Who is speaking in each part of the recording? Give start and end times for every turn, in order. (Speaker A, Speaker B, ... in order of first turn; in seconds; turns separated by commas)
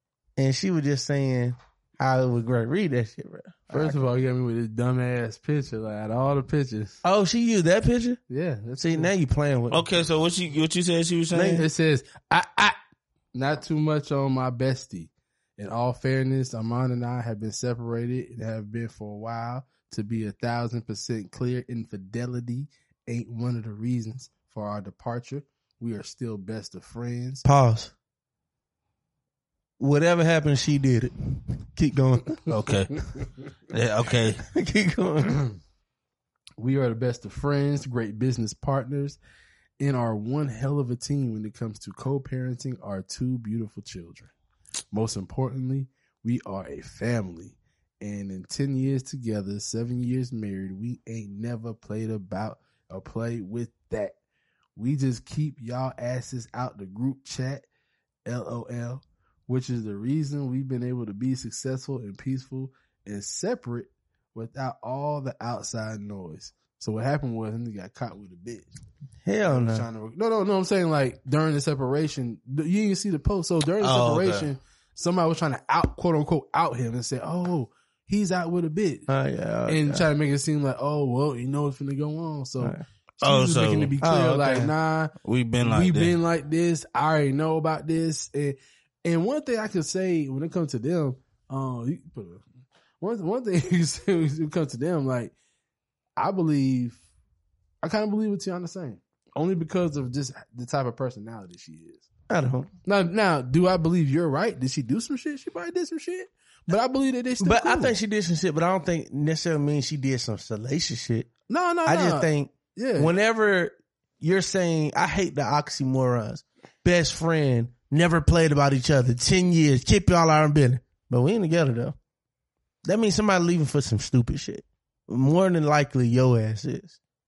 Speaker A: 0.4-4.1, Speaker B: 3.7-7.0, Speaker A: 7.0-8.2, Speaker B: 8.3-9.1, Speaker A: 8.8-9.9, Speaker C: 9.7-11.7, Speaker A: 11.3-11.7, Speaker B: 11.6-12.8, Speaker B: 13.3-27.4, Speaker A: 27.4-27.9, Speaker A: 29.8-32.4, Speaker C: 32.5-33.1, Speaker C: 33.7-34.4, Speaker A: 34.5-35.4, Speaker B: 36.6-39.2, Speaker B: 39.8-44.3, Speaker B: 44.9-54.2, Speaker B: 54.8-57.6, Speaker B: 58.3-68.7, Speaker A: 69.2-69.9, Speaker B: 69.5-79.1, Speaker C: 73.8-74.5, Speaker A: 79.1-80.1, Speaker B: 79.7-92.4, Speaker C: 83.2-84.0, Speaker A: 84.0-84.7, Speaker C: 85.2-86.2, Speaker B: 93.0-95.3, Speaker B: 96.2-97.0, Speaker B: 97.8-102.1, Speaker A: 102.3-102.7, Speaker B: 102.9-108.0, Speaker A: 107.4-111.3, Speaker B: 111.5-113.1, Speaker A: 111.9-122.0, Speaker A: 122.8-127.0